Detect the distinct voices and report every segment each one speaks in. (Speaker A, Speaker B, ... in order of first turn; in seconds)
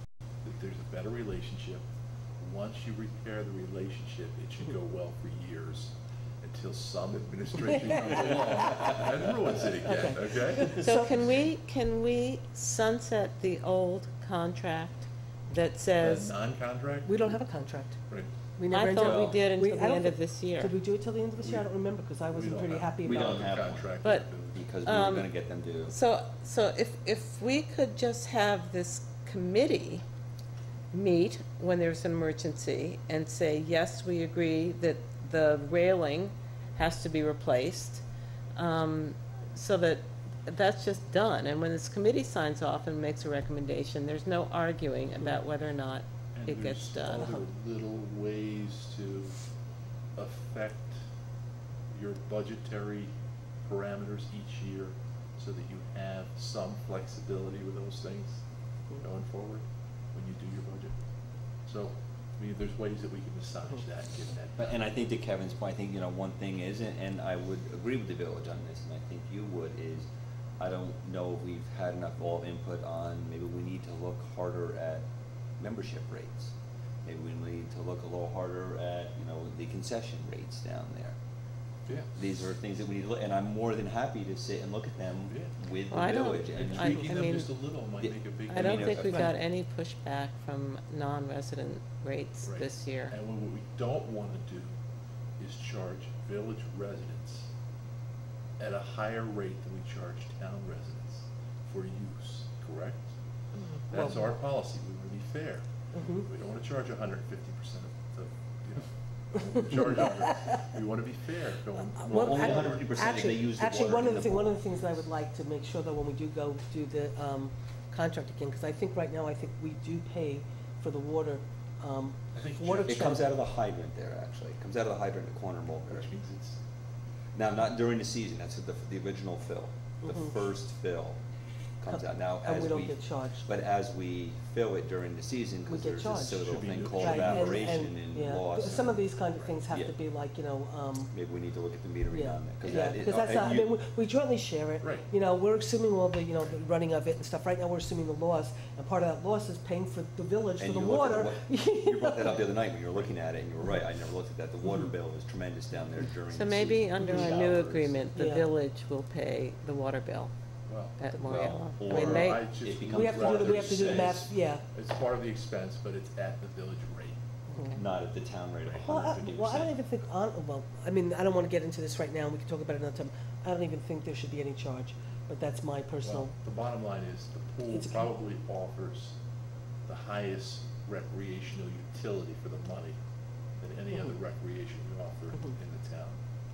Speaker A: 0.4-1.8, 2.4-10.8, 16.0-17.4, 21.4-21.7, 22.3-24.6, 46.3-49.4, 50.1-51.0, 51.9-53.1, 53.6-61.0, 61.6-64.7, 81.9-82.1, 85.3-85.5, 86.5-89.3, 92.4-94.7, 95.4-97.5, 98.6-103.1, 103.9-112.9, 122.3-123.3, 125.9-126.6, 136.3-137.7, 144.8-145.1, 160.7-161.0, 161.8-167.2, 176.0-179.2, 179.8-183.0, 183.6-186.2
Speaker B: 7.7-8.1, 9.8-11.1, 17.1-18.0, 18.6-23.6, 105.9-106.3, 111.9-123.3, 130.0-130.4, 131.9-133.4, 135.7-141.1, 142.1-152.5, 158.1-158.5, 161.9-164.6, 168.8-176.3, 177.7-178.1
Speaker C: 10.6-16.3, 18.7-20.7, 24.8-25.3, 25.9-30.0, 30.9-38.0, 38.5-47.3, 85.9-87.5, 88.5-93.1, 156.3-160.3, 161.0-162.2, 167.5-167.8
Speaker D: 19.0-19.4, 23.0-23.9, 24.5-25.9, 64.6-70.1, 70.6-75.1, 75.6-81.2, 82.1-87.3, 88.0-89.3, 112.0-114.6, 122.8-126.1, 127.3-131.2, 131.8-139.1, 139.7-139.9, 141.1-143.7, 150.6-157.9, 161.2-164.2, 167.7-169.7